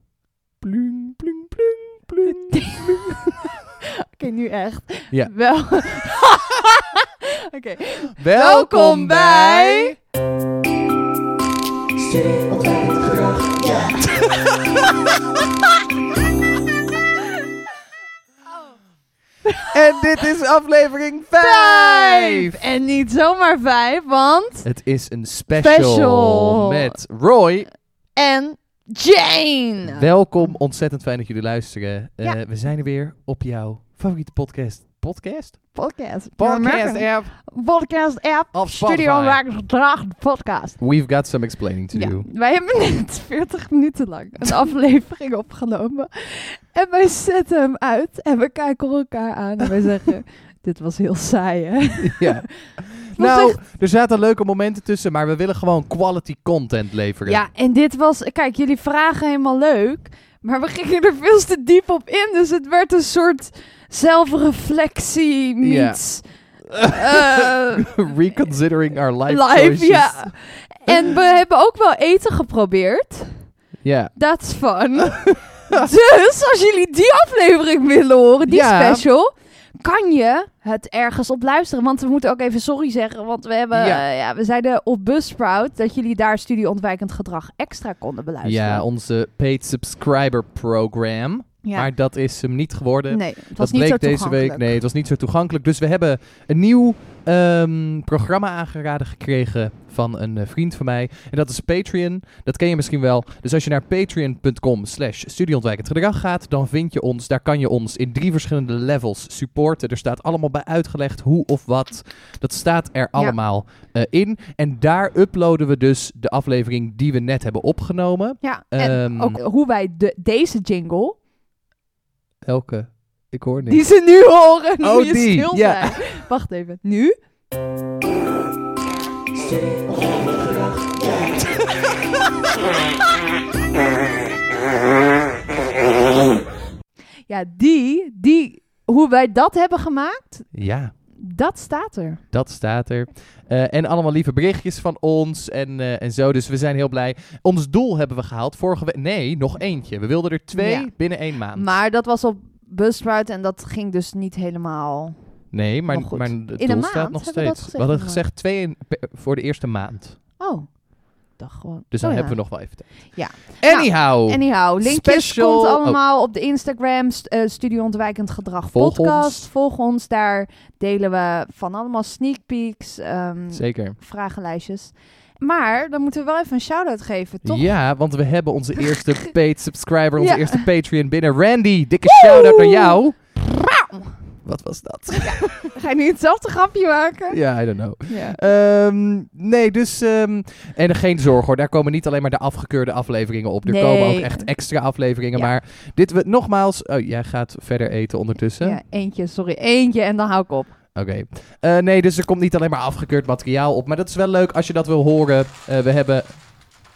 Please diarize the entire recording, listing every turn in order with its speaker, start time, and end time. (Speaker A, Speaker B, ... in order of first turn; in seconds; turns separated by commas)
Speaker A: 0.6-3.3, Speaker B: 2.2-10.0, Speaker A: 8.2-10.0, Speaker B: 12.0-14.4, Speaker A: 14.1-15.0, Speaker B: 19.5-19.7, Speaker A: 19.7-22.6, Speaker B: 21.4-24.7, Speaker A: 24.6-27.7, Speaker B: 25.5-26.9, Speaker B: 28.1-30.1, Speaker A: 29.8-35.8, Speaker B: 35.7-40.8, Speaker A: 36.4-37.4, Speaker A: 38.5-39.4, Speaker A: 40.8-42.3, Speaker B: 41.9-53.6, Speaker A: 52.0-57.4, Speaker B: 57.3-68.0, Speaker A: 65.6-71.1, Speaker B: 69.3-73.5, Speaker A: 73.8-74.2, Speaker B: 74.2-88.8, Speaker A: 75.1-75.9, Speaker A: 78.5-79.1, Speaker A: 83.7-84.0, Speaker A: 88.4-119.4, Speaker B: 91.6-91.9, Speaker B: 93.1-94.8, Speaker B: 118.4-121.2, Speaker A: 122.5-123.8, Speaker B: 123.7-127.2, Speaker A: 124.8-126.0, Speaker B: 131.0-131.4, Speaker B: 137.3-140.5, Speaker A: 140.5-140.9, Speaker B: 141.1-142.2, Speaker A: 142.3-151.8, Speaker B: 150.5-155.2, Speaker A: 155.5-160.2, Speaker B: 155.9-158.2, Speaker B: 160.4-177.7, Speaker A: 161.9-166.0, Speaker A: 168.7-169.5, Speaker A: 173.5-174.0, Speaker A: 177.4-183.2, Speaker B: 180.2-180.7, Speaker B: 182.1-184.2, Speaker A: 184.4-185.7, Speaker B: 185.2-187.4, Speaker A: 187.3-198.8, Speaker B: 188.1-188.4, Speaker B: 193.7-194.6, Speaker B: 198.6-200.8, Speaker A: 200.9-206.7